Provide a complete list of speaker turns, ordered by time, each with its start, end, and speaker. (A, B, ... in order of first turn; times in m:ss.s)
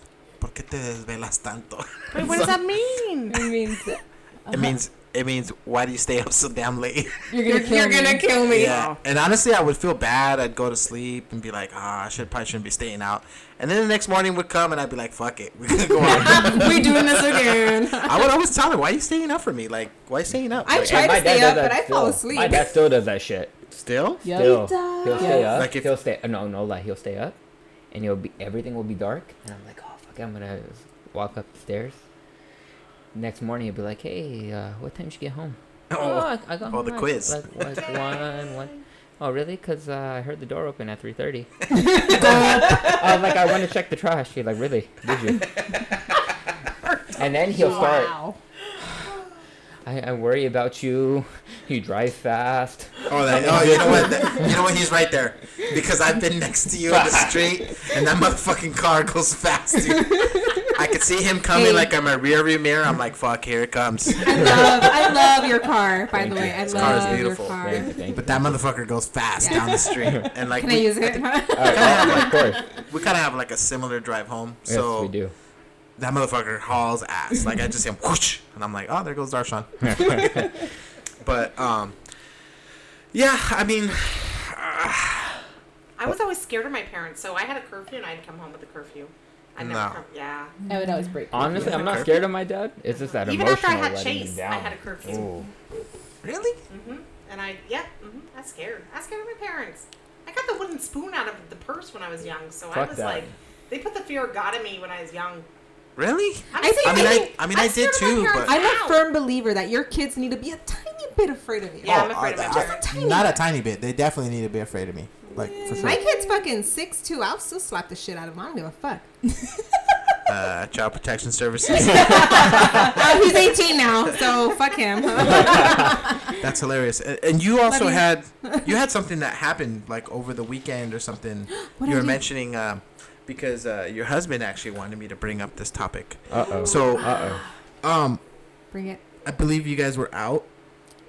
0:00.4-0:02.6 A
0:02.1-0:03.5 B
0:03.3-0:04.7 C
0:04.5-0:07.2 A
0:07.3-0:08.3 C
0:07.4-0:08.8 D
0:08.4-0:09.0 B
0:08.5-0:21.0 A
0:16.0-0:18.3 D
0:20.6-0:22.7 D
0:20.7-0:23.5 E
0:23.7-0:24.3 A
0:24.2-0:25.6 C
0:24.3-0:27.4 E
0:25.5-0:25.9 A
0:27.9-0:32.0 E
0:33.1-0:41.5 E
0:35.9-0:37.4 A
0:37.7-0:38.6 B
0:42.0-0:42.9 C
0:42.1-0:45.5 E
0:47.2-0:48.1 E
0:47.5-0:48.4 D
0:47.6-0:48.0 B
0:49.8-0:54.4 E
0:53.1-1:04.9 A
0:56.9-0:57.7 E
1:01.5-1:01.9 D
1:04.2-1:08.0 D
1:04.3-1:04.9 E
1:06.1-1:08.6 E
1:06.7-1:15.1 A
1:09.4-1:10.0 D
1:10.5-1:12.5 D
1:11.5-1:12.6 E
1:14.7-1:15.3 E
1:16.0-1:20.5 A
1:19.8-1:20.6 E
1:21.2-1:22.0 A
1:23.1-1:25.4 A
1:26.0-1:30.5 B
1:29.6-1:30.0 A
1:30.7-1:31.0 D
1:30.7-1:32.1 C
1:31.3-1:35.5 E
1:31.4-1:32.2 A
1:32.9-1:35.3 B
1:36.2-1:36.6 A
1:36.7-1:45.4 B
1:42.7-1:43.3 E
1:46.0-1:48.5 A
1:46.5-1:49.0 B
1:46.6-1:47.4 D
1:48.4-1:53.4 D
1:51.8-1:52.8 B
1:51.8-1:56.0 A
1:55.5-1:56.4 C
1:55.7-1:59.2 D
2:00.2-2:03.3 A
2:02.0-2:06.3 D
2:06.3-2:17.2 A
2:07.7-2:08.7 D
2:11.6-2:12.2 D
2:16.3-2:17.4 E
2:17.8-2:18.2 A
2:18.7-2:19.0 D
2:19.2-2:20.4 A